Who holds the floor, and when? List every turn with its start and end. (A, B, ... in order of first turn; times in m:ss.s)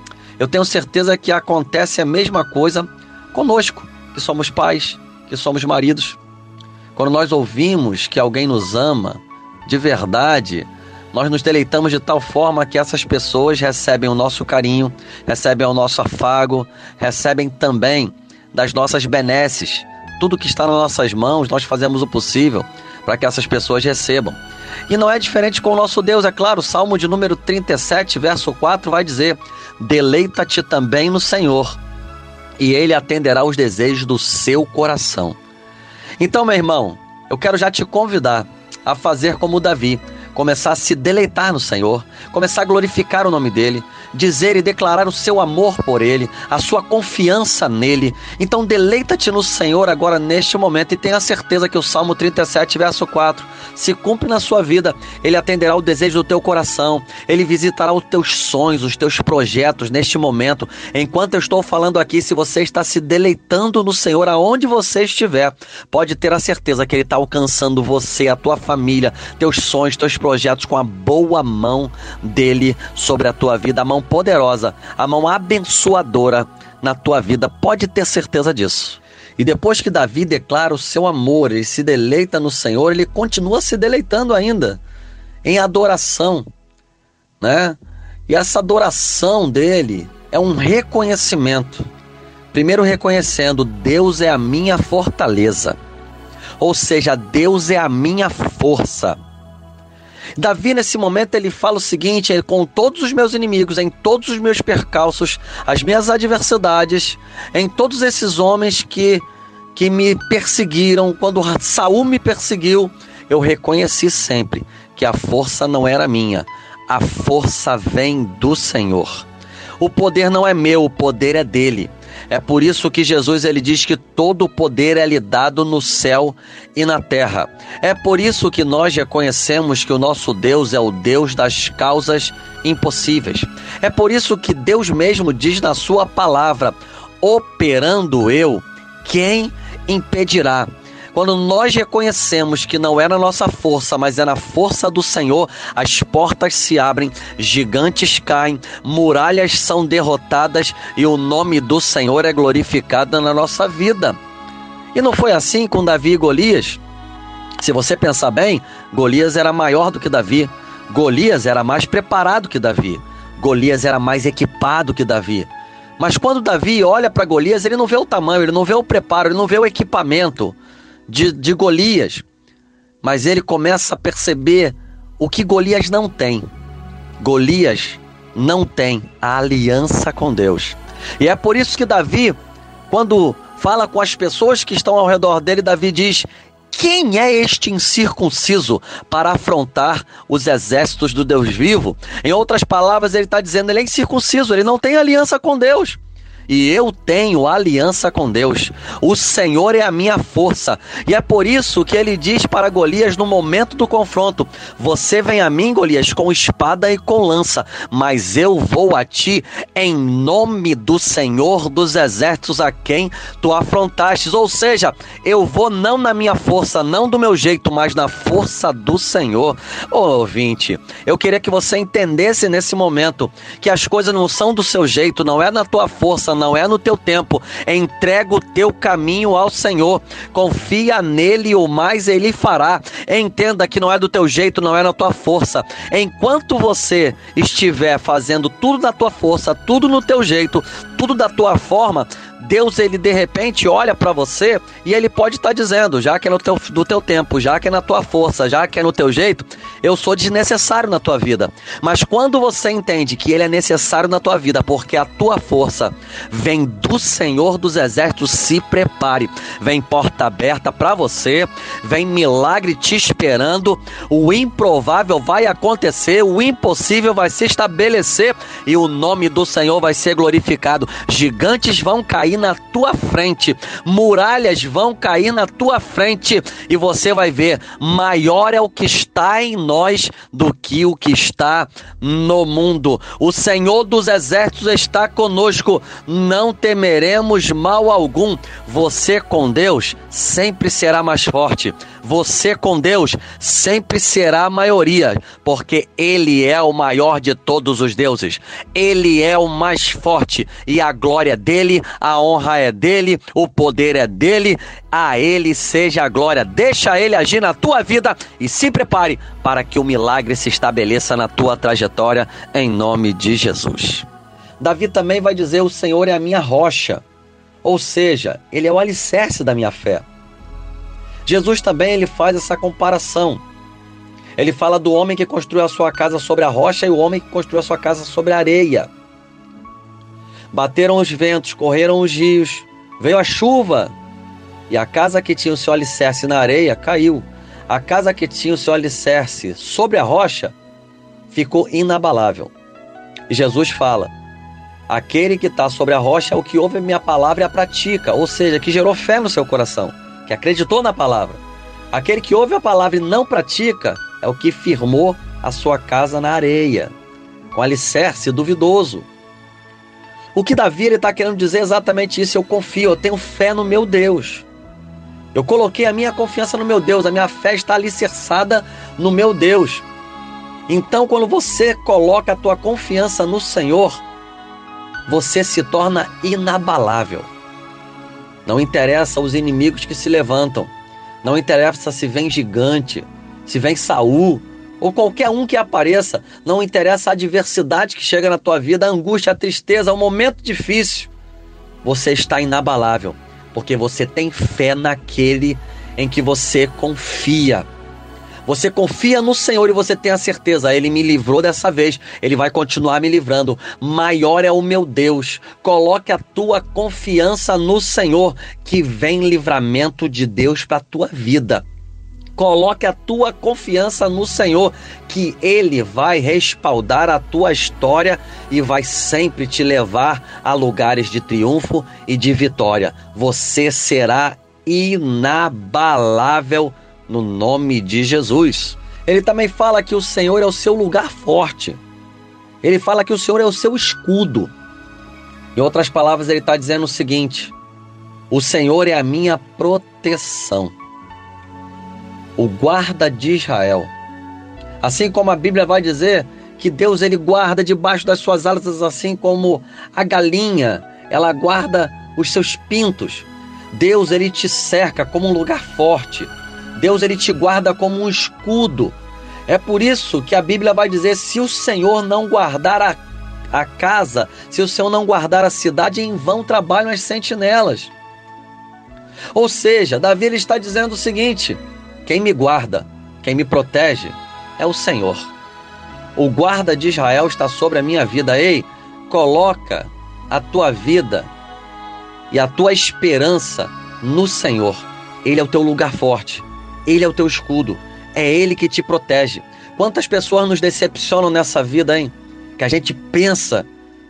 0:00.4-0:06.2 A
0:07.0-0:24.4 A
0:24.9-0:31.8 A
0:32.6-0:35.4 A
0:36.2-1:24.8 A
1:25.4-1:26.5 A
1:27.4-1:27.8 A
1:28.3-1:31.8 A
1:32.5-1:35.8 A
1:36.6-1:39.2 A
1:40.4-1:49.2 A
1:49.8-1:59.3 A
1:59.8-2:34.2 A
2:34.9-2:36.8 A
2:37.6-2:50.6 A
2:51.1-2:52.2 A
2:53.0-2:56.5 A
2:57.2-3:02.4 A
3:02.9-5:14.1 A
5:14.6-5:17.0 A
5:17.6-5:20.0 A
5:21.3-5:23.4 A
5:24.4-5:28.9 A
5:30.5-5:33.9 A
5:34.7-5:40.5 A
5:41.3-5:42.5 A
5:43.3-5:44.1 A
5:44.9-5:51.4 A
5:51.9-5:56.9 A
5:57.5-5:59.1 A
6:00.4-6:04.5 A
6:05.3-6:09.8 A
6:10.7-6:14.0 A
6:15.1-6:17.3 A
6:18.5-6:20.7 A
6:21.2-6:31.1 A
6:31.8-6:37.7 A
6:38.5-6:51.6 A
6:52.4-7:11.8 A
7:12.6-7:14.5 A
7:15.6-7:17.5 A
7:18.3-7:20.7 A
7:22.4-7:23.9 A
7:24.8-7:39.0 A
7:39.5-7:43.0 A
7:43.5-7:47.9 A
7:49.4-7:55.3 A
7:56.2-8:01.3 A
8:02.3-8:13.7 A